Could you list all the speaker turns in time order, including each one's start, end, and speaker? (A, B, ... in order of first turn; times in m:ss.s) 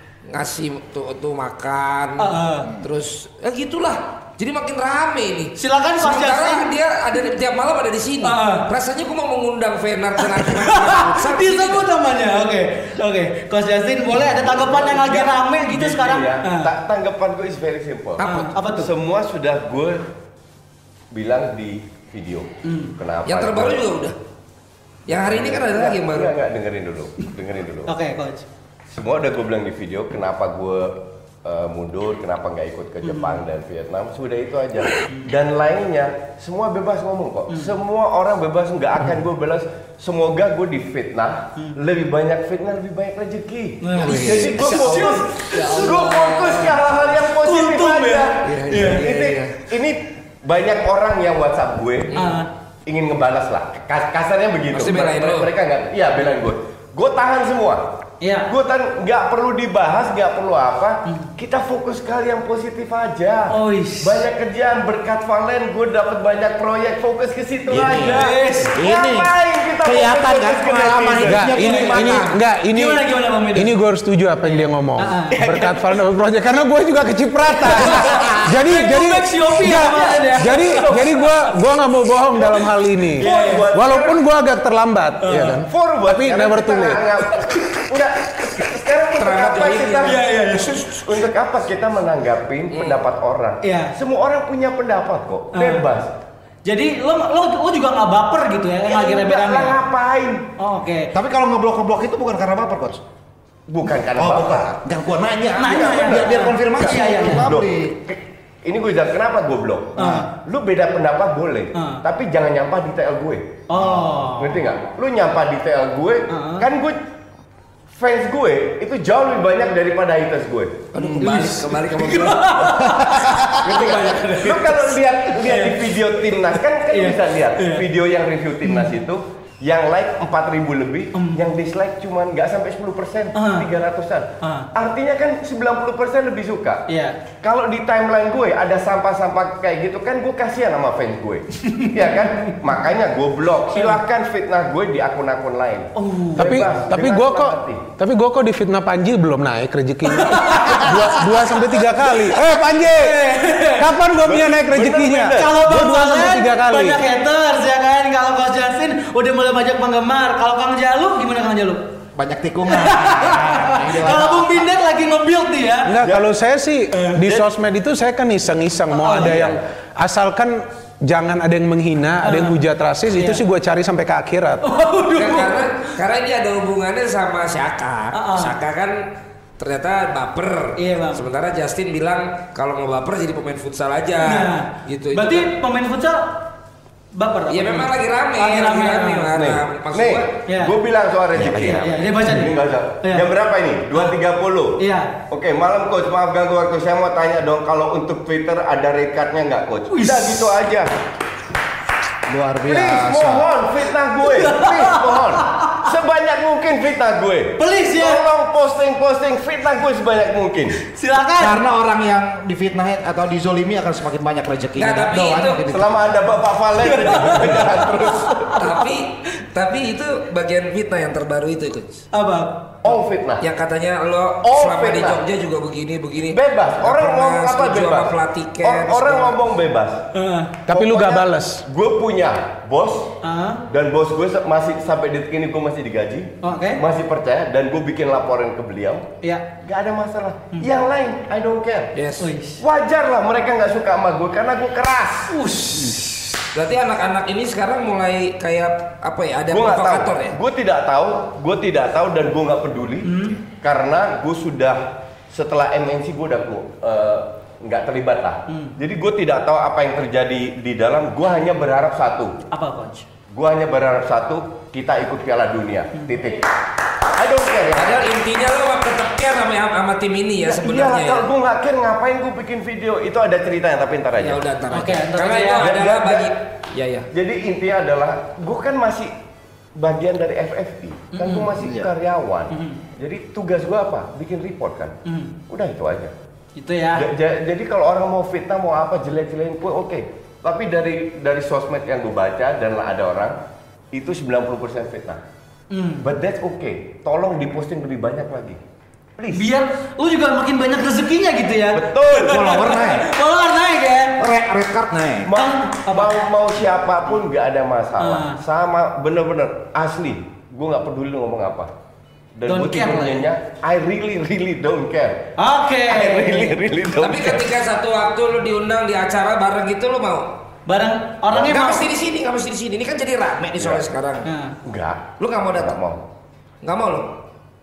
0:00.3-0:11.9 A
0:02.2-0:02.7 B
0:05.6-0:06.7 B
0:08.2-0:08.7 B
0:10.2-0:16.7 B
0:14.2-0:20.0 C
0:18.2-0:18.6 A
0:18.2-0:18.9 B
0:21.1-0:23.8 C
0:22.6-0:22.9 B
0:23.2-0:24.2 A
0:25.1-0:26.3 A
0:25.1-0:27.9 C
0:27.9-0:28.5 B
0:28.9-0:52.2 C
0:33.0-0:33.4 B
0:35.0-0:35.3 B
0:43.8-0:46.1 B
0:44.1-0:46.8 A
0:47.4-0:48.4 B
0:48.4-0:49.6 A
0:52.1-0:52.4 A
0:52.1-0:52.5 B
0:52.8-1:12.3 C
0:54.7-0:55.5 A
0:58.2-0:58.5 B
1:03.5-1:04.2 B
1:07.7-1:09.3 D
1:08.0-1:08.8 B
1:09.8-1:12.3 D
1:11.3-1:27.2 E
1:12.7-1:13.7 B
1:14.4-1:15.3 B
1:15.3-1:16.0 C
1:17.7-1:20.9 B
1:20.7-1:21.4 C
1:22.4-1:24.2 C
1:23.2-1:23.6 B
1:25.2-1:25.6 B
1:25.7-1:36.1 C
1:29.2-1:30.2 A
1:30.0-1:31.0 B
1:33.6-1:34.0 B
1:35.5-1:35.9 B
1:36.6-1:39.7 B
1:38.9-1:40.5 C
1:40.6-1:41.1 B
1:41.1-1:43.0 D
1:43.7-1:44.7 C
1:44.1-1:47.9 D
1:45.6-1:47.5 B
1:45.6-1:46.4 C
1:47.2-1:53.6 C
1:50.0-1:50.3 B
1:51.7-1:52.0 B
1:53.7-1:54.5 B
1:54.3-1:57.0 C
1:56.3-1:56.6 B
1:57.9-2:00.9 C
2:00.9-2:02.7 A
2:01.0-2:01.4 D
2:01.9-2:05.8 B
2:02.8-2:03.7 D
2:03.6-2:16.8 C
2:06.9-2:07.8 B
2:08.6-2:09.0 B
2:11.1-2:11.4 B
2:13.3-2:13.7 B
2:14.4-2:14.7 B
2:16.9-2:17.2 B
2:17.4-2:27.9 C
2:21.6-2:22.6 B
2:26.0-2:26.6 B
2:26.4-2:37.0 E
2:30.1-2:33.9 B
2:34.2-2:35.6 C
2:35.3-2:41.9 B
2:42.1-2:44.6 D
2:42.7-2:45.9 B
2:45.8-2:54.6 E
2:46.0-2:46.3 C
2:47.1-2:47.5 C
2:48.9-2:49.5 B
2:49.1-2:49.6 C
2:52.2-2:53.4 B
2:54.6-2:55.8 B
2:55.1-2:59.0 A
2:58.1-2:58.6 B
2:59.6-3:05.5 A
3:00.8-3:01.2 B
3:04.2-3:06.4 B
3:07.1-3:09.3 B
3:07.5-3:10.3 A
3:09.3-3:20.9 C
3:10.4-3:10.7 B
3:11.3-3:11.7 D
3:11.5-3:13.3 B
3:14.8-3:15.1 B
3:19.9-3:20.6 B
3:22.3-3:23.5 D
3:22.6-3:30.8 C
3:24.2-3:25.8 B
3:27.6-3:28.2 B
3:30.8-3:31.6 B
3:31.4-3:36.2 D
3:34.8-3:35.7 A
3:35.6-3:38.6 C
3:37.0-3:38.6 B
3:38.6-3:42.0 A
3:42.1-3:42.8 B
3:42.8-3:43.5 C
3:43.4-3:49.3 A
3:44.4-3:45.2 C
3:46.3-3:50.0 C
3:50.1-3:50.6 B
3:50.7-3:51.6 E
3:50.7-3:53.2 C
3:53.2-3:53.6 B
3:53.7-4:01.9 C
3:56.4-3:56.8 B
3:59.2-3:59.5 B
4:01.9-4:02.3 A
4:02.2-4:02.6 B
4:02.6-4:05.4 C
4:05.3-4:06.1 B
4:06.5-4:10.4 A
4:09.5-4:22.4 C
4:13.0-4:13.4 B
4:18.5-4:18.7 B
4:22.5-4:23.0 B
4:23.3-4:28.1 C
4:27.7-4:31.3 A
4:30.4-4:34.4 C
4:34.2-4:37.1 A
4:34.7-4:35.6 B
4:35.6-4:36.4 C
4:37.1-4:39.1 C
4:39.8-4:45.0 C
4:41.1-4:41.5 B
4:41.6-4:41.9 D
4:42.5-4:42.8 B
4:45.0-4:45.3 B
4:45.5-4:46.1 C
4:46.6-4:47.1 B
4:46.9-4:53.4 C
4:53.9-4:55.2 C
4:55.7-4:56.1 B
4:56.0-4:58.6 C
4:59.2-4:59.5 C
4:59.3-5:04.2 B
5:01.7-5:02.7 C
5:02.2-5:03.1 D
5:04.2-5:05.3 D
5:05.2-5:11.7 C
5:05.3-5:06.3 B
5:08.0-5:08.4 B
5:12.4-5:15.3 C
5:12.4-5:13.2 B
5:15.4-5:16.5 B
5:15.9-5:17.5 C
5:17.0-5:20.3 A
5:20.7-5:21.8 B
5:21.3-5:21.6 C
5:21.4-5:24.3 A
5:24.2-5:24.5 B
5:24.6-5:26.1 C
5:25.2-5:25.8 A
5:26.6-5:27.2 A